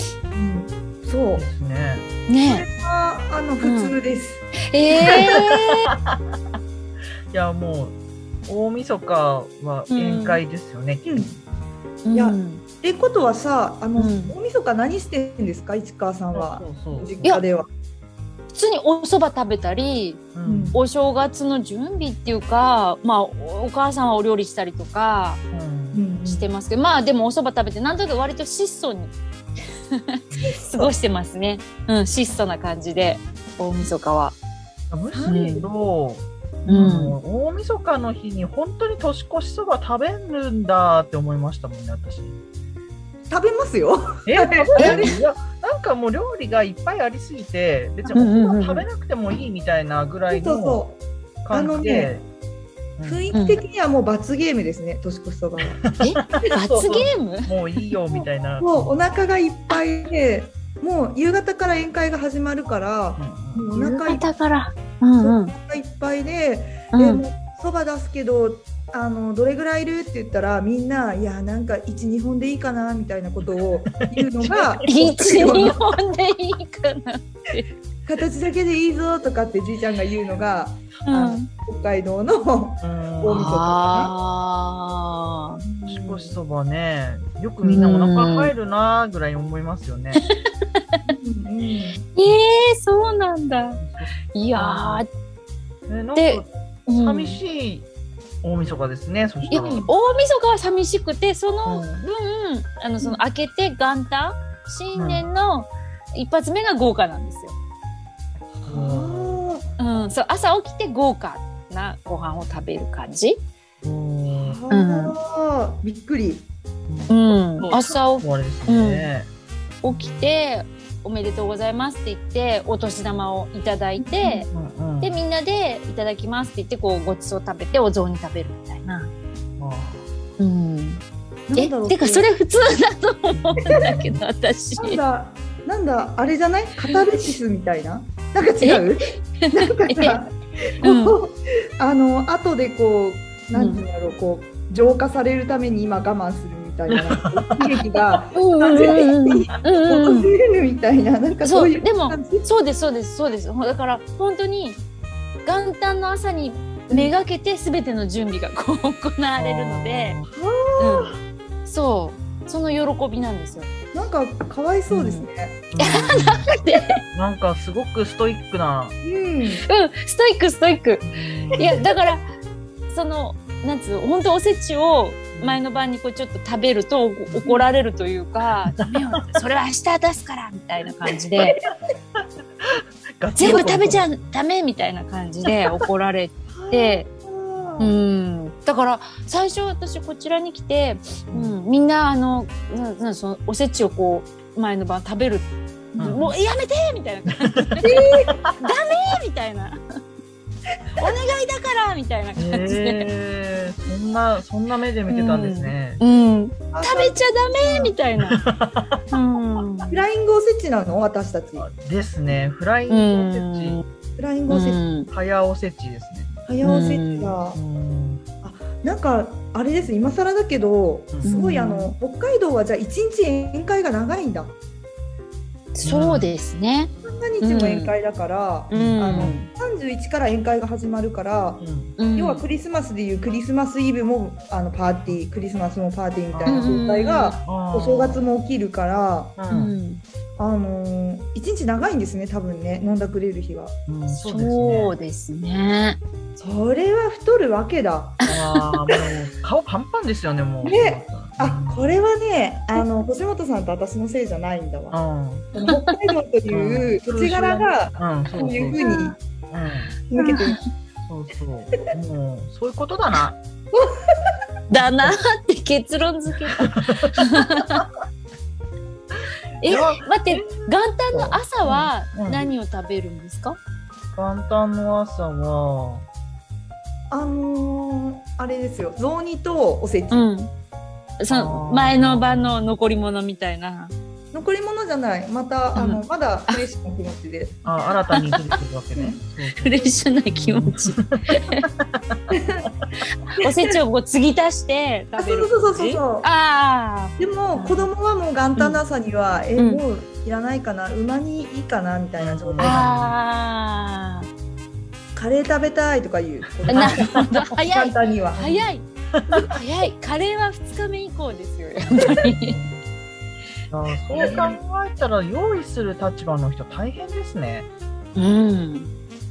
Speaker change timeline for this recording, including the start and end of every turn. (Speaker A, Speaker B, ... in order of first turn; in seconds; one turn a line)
Speaker A: 0.3-1.5
Speaker B: 1.3-2.1
Speaker C: 2.3-2.6
Speaker A: 2.5-4.5
Speaker C: 3.6-4.0
Speaker C: 4.7-5.9
Speaker B: 5.0-6.5
Speaker B: 7.3-11.4
Speaker C: 9.9-10.4
Speaker C: 12.0-12.6
Speaker A: 12.1-17.7
Speaker C: 14.0-14.3
Speaker B: 16.3-17.4
Speaker C: 18.5-25.4
Speaker B: 20.3-20.8
Speaker A: 20.4-20.8
Speaker B: 25.5-26.0
Speaker A: 25.9-26.5
Speaker C: 26.2-29.1
Speaker C: 29.6-34.4
Speaker A: 30.5-30.9
Speaker B: 34.9-42.4
Speaker A: 35.1-35.4
Speaker C: 35.3-35.7
Speaker C: 36.6-37.1
Speaker A: 43.3-45.2
Speaker B: 44.2-50.8
Speaker C: 44.8-45.1
Speaker C: 48.1-48.8
Speaker A: 50.3-51.0
Speaker B: 51.4-52.2
Speaker A: 51.5-52.1
Speaker B: 53.0-53.3
Speaker A: 53.0-55.8
Speaker C: 53.3-53.6
Speaker B: 55.6-59.0
Speaker C: 56.0-57.5
Speaker A: 58.1-64.2
Speaker B: 63.2-63.7
Speaker C: 63.7-65.5
Speaker A: 65.2-75.7
Speaker C: 66.9-67.2
Speaker B: 73.4-75.8
Speaker C: 74.8-77.7
Speaker A: 78.0-84.1
Speaker C: 81.0-81.5
Speaker B: 82.8-83.5
Speaker C: 83.3-85.6
Speaker A: 85.6-86.4
Speaker B: 85.9-90.2
Speaker C: 87.6-88.5
Speaker C: 90.2-91.1
Speaker A: 91.1-92.0
Speaker C: 92.1-93.8
Speaker B: 93.8-95.0
Speaker C: 94.3-95.1
Speaker B: 95.9-97.9
Speaker C: 96.2-97.4
Speaker B: 98.4-99.9
Speaker A: 99.5-99.9
Speaker C: 99.5-107.5
Speaker B: 101.7-102.0
Speaker B: 104.9-105.2
Speaker B: 108.5-109.4
Speaker A: 108.7-109.7
Speaker C: 109.8-113.4
Speaker B: 113.8-114.6
Speaker A: 114.3-116.5
Speaker C: 114.7-115.1
Speaker B: 116.9-119.3
Speaker C: 117.1-119.1
Speaker C: 119.8-124.5
Speaker B: 119.9-120.3
Speaker A: 124.0-124.4
Speaker B: 124.5-125.2
Speaker C: 125.0-129.1
Speaker B: 129.6-130.1
Speaker C: 130.4-131.0
Speaker A: 131.5-132.2
Speaker C: 131.6-135.0
Speaker B: 133.3-134.2
Speaker A: 134.8-152.4
Speaker C: 139.4-140.2
Speaker C: 140.8-141.2
Speaker C: 143.5-143.8
Speaker B: 146.9-148.1
Speaker C: 148.3-150.3
Speaker C: 151.4-154.8
Speaker C: 155.4-160.2
Speaker B: 159.4-160.3
Speaker A: 160.4-161.1
Speaker C: 160.8-163.7
Speaker A: 163.9-165.6
Speaker C: 164.9-165.2
Speaker B: 165.7-166.5
Speaker C: 165.8-167.0
Speaker B: 167.1-169.0
Speaker A: 169.0-169.6
Speaker C: 169.7-172.3
Speaker B: 171.0-171.9
Speaker C: 172.9-181.6
Speaker B: 175.3-175.6
Speaker B: 178.8-179.2
Speaker B: 182.1-184.1
Speaker C: 183.4-187.1
Speaker A: 186.5-187.9
Speaker C: 187.8-195.5
Speaker B: 191.3-191.6
Speaker A: 195.9-196.2
Speaker B: 196.0-196.3
Speaker C: 196.0-199.8
Speaker B: 197.5-197.8
Speaker A: 197.8-198.4
Speaker C: 201.0-203.1
Speaker B: 202.3-206.0
Speaker C: 205.1-208.4
Speaker A: 206.7-207.9
Speaker B: 208.2-209.0
Speaker C: 209.1-210.0
Speaker A: 209.9-211.7
Speaker B: 211.6-213.8
Speaker C: 212.9-213.8
Speaker A: 214.2-214.9
Speaker C: 214.5-215.1
Speaker B: 215.1-216.4
Speaker A: 216.4-217.6
Speaker C: 216.6-217.3
Speaker B: 217.5-218.2
Speaker A: 218.4-224.6
Speaker C: 221.2-221.9
Speaker C: 225.7-227.9
Speaker B: 225.8-226.3
Speaker A: 227.0-239.4
Speaker C: 228.7-229.5
Speaker B: 228.7-229.4
Speaker B: 231.6-231.9
Speaker C: 232.0-232.4
Speaker B: 236.3-236.8
Speaker C: 236.5-237.4
Speaker B: 237.4-238.2
Speaker B: 239.4-239.8
Speaker C: 239.5-240.0
Speaker A: 240.4-243.8
Speaker B: 243.9-244.9
Speaker C: 244.1-246.0
Speaker A: 246.4-248.2
Speaker B: 248.3-252.0
Speaker A: 250.6-255.0
Speaker B: 254.9-255.5
Speaker A: 255.5-259.1
Speaker C: 255.6-255.9
Speaker B: 256.5-258.8
Speaker C: 258.8-259.1
Speaker B: 259.5-259.9
Speaker A: 260.1-260.6
Speaker C: 260.2-260.6
Speaker B: 261.0-263.4
Speaker A: 263.7-264.1
Speaker C: 264.7-267.8
Speaker B: 264.8-265.1
Speaker B: 266.6-267.8
Speaker C: 269.6-273.6
Speaker B: 269.7-272.5
Speaker B: 274.1-276.0
Speaker A: 277.1-280.3
Speaker C: 280.1-280.5
Speaker C: 281.2-283.9
Speaker B: 281.3-282.7
Speaker A: 284.3-287.6
Speaker C: 285.7-286.6
Speaker B: 287.6-292.9
Speaker C: 288.1-288.4
Speaker A: 288.9-289.2
Speaker C: 289.6-291.6
Speaker A: 292.3-292.7
Speaker C: 293.3-297.9
Speaker A: 295.2-296.3
Speaker A: 297.2-302.9
Speaker C: 298.6-298.8
Speaker C: 299.6-299.8
Speaker B: 302.2-303.1
Speaker C: 302.6-304.3
Speaker A: 305.1-308.6
Speaker B: 306.6-307.3
Speaker C: 306.7-312.6
Speaker B: 309.1-309.5
Speaker B: 311.9-312.8
Speaker B: 313.7-317.7
Speaker C: 314.1-314.6
Speaker C: 318.1-318.9